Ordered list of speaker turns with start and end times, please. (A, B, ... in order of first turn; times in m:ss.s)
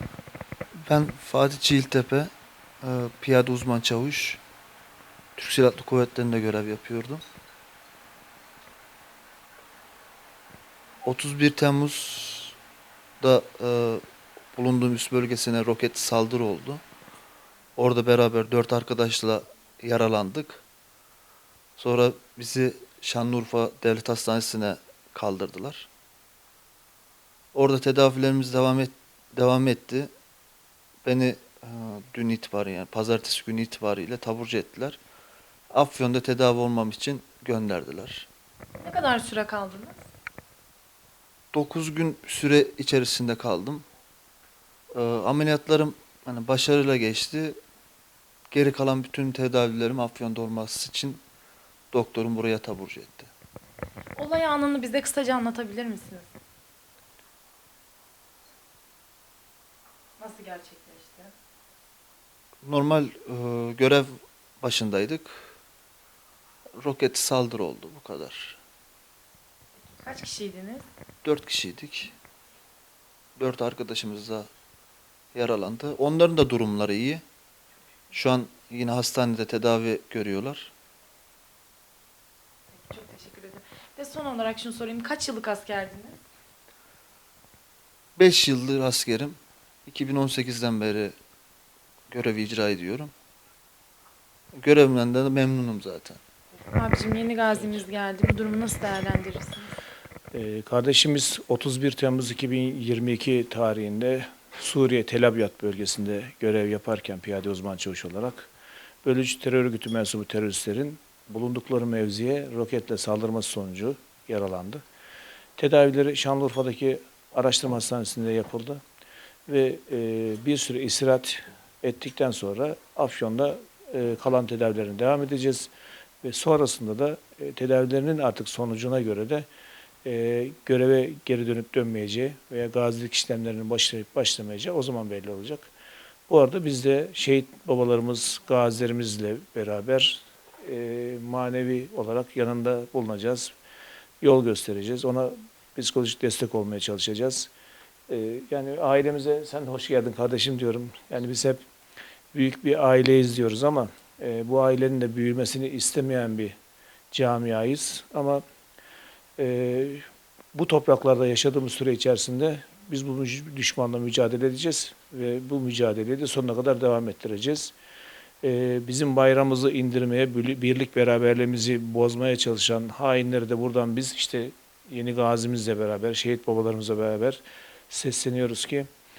0:00.8-0:02.3 A
0:02.8-0:04.4 A
0:05.4-0:07.2 A
0:11.0-0:12.5 A
0:13.2-0:14.0 A
0:14.5-0:16.8 A
0:17.8-0:20.6 A
0:21.8-0:25.9 A
0:27.5-0:30.1 A
0:31.0-0:35.0 A
0:35.7-0:38.3 A
0:38.8-0:40.0 B
0:41.5-0:43.8 A
0:44.9-0:47.6 A
0:48.5-0:51.2 A
0:51.9-0:53.3 A
0:54.2-0:56.3 B
1:00.2-1:01.3 B
1:02.6-1:04.1 A
1:04.6-1:05.4 A
1:06.8-1:08.6 A
1:09.8-1:10.8 B
1:11.2-1:12.1 A
1:13.4-1:14.5 A
1:15.3-1:17.2 A
1:18.1-1:20.7 A
1:22.7-1:26.2 B
1:28.2-1:31.2 A
1:32.1-1:33.1 A
1:34.5-1:36.2 A
1:36.7-1:39.8 B
1:40.3-1:48.5 C
1:49.0-1:54.8 C
1:55.6-1:58.8 C
1:59.5-2:05.7 C
2:06.2-2:09.5 C
2:10.0-2:15.7 C
2:16.3-2:23.5 C
2:24.2-2:27.5 C
2:28.1-2:31.6 C
2:32.3-2:36.6 C
2:37.1-2:38.4 C
2:39.4-2:47.7 C
2:48.4-2:58.9 C